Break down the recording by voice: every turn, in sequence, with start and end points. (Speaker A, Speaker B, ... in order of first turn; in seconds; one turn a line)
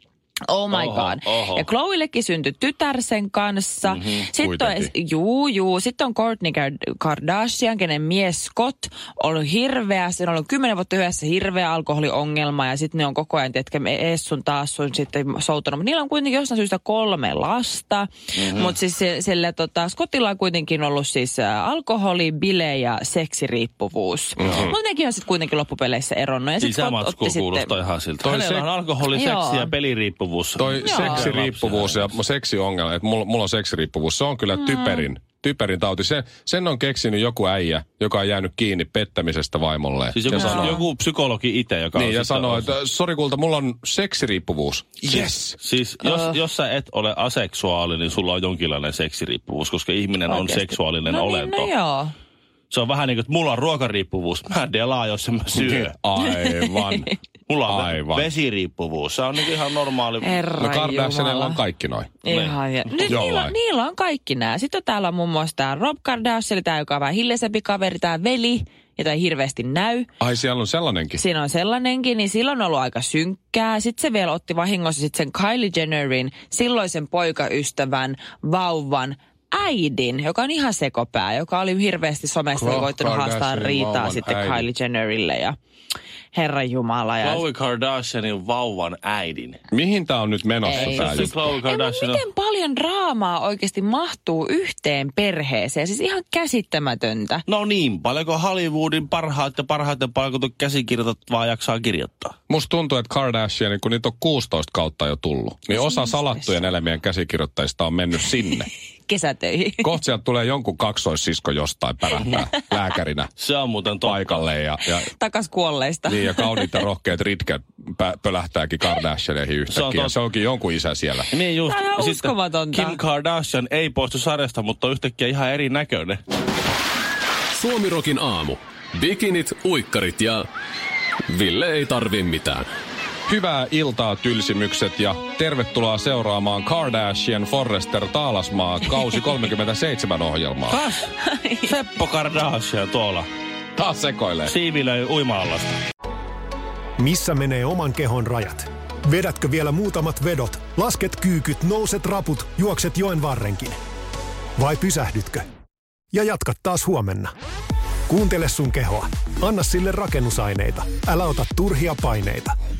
Speaker A: 0.5-27.7
Speaker B: 0.7-1.6
Speaker B: 3.8-4.3
Speaker C: 4.4-4.9
Speaker B: 18.4-18.8
Speaker C: 24.4-24.7
Speaker B: 26.6-32.1
Speaker C: 28.2-28.6
Speaker A: 29.1-29.7
Speaker C: 30.6-40.8
Speaker A: 30.8-31.3
Speaker A: 34.5-35.0
Speaker B: 40.1-42.7
Speaker A: 40.4-40.8
Speaker C: 41.9-45.6
Speaker B: 45.1-51.7
Speaker A: 46.0-46.4
Speaker A: 50.3-52.1
Speaker B: 52.7-55.9
Speaker C: 55.5-57.1
Speaker A: 56.2-57.1
Speaker B: 57.5-60.5
Speaker C: 57.7-58.3
Speaker A: 60.2-61.6
Speaker C: 60.6-62.1
Speaker A: 62.2-70.1
Speaker B: 62.3-63.2
Speaker C: 63.0-63.5
Speaker C: 70.2-71.2
Speaker A: 71.2-85.5
Speaker C: 82.5-84.7
Speaker A: 86.3-87.4
Speaker B: 87.2-89.6
Speaker C: 89.7-91.3
Speaker A: 90.6-97.4
Speaker B: 90.7-92.2
Speaker B: 97.5-102.3
Speaker C: 102.5-108.7
Speaker A: 105.7-106.7
Speaker A: 109.1-109.9
Speaker C: 109.8-113.3
Speaker B: 113.4-114.4
Speaker C: 114.0-115.1
Speaker A: 115.1-116.8
Speaker C: 116.1-121.3
Speaker B: 119.7-120.2
Speaker B: 121.3-126.2
Speaker A: 121.7-123.0
Speaker D: 127.5-130.5
Speaker D: 131.3-132.7
Speaker C: 133.3-140.8
Speaker B: 140.7-141.1
Speaker A: 141.2-141.7
Speaker B: 141.6-143.3
Speaker C: 143.8-144.5
Speaker B: 144.4-145.8
Speaker E: 147.0-153.8
Speaker E: 154.6-155.4
Speaker E: 156.1-157.3
Speaker E: 158.1-162.5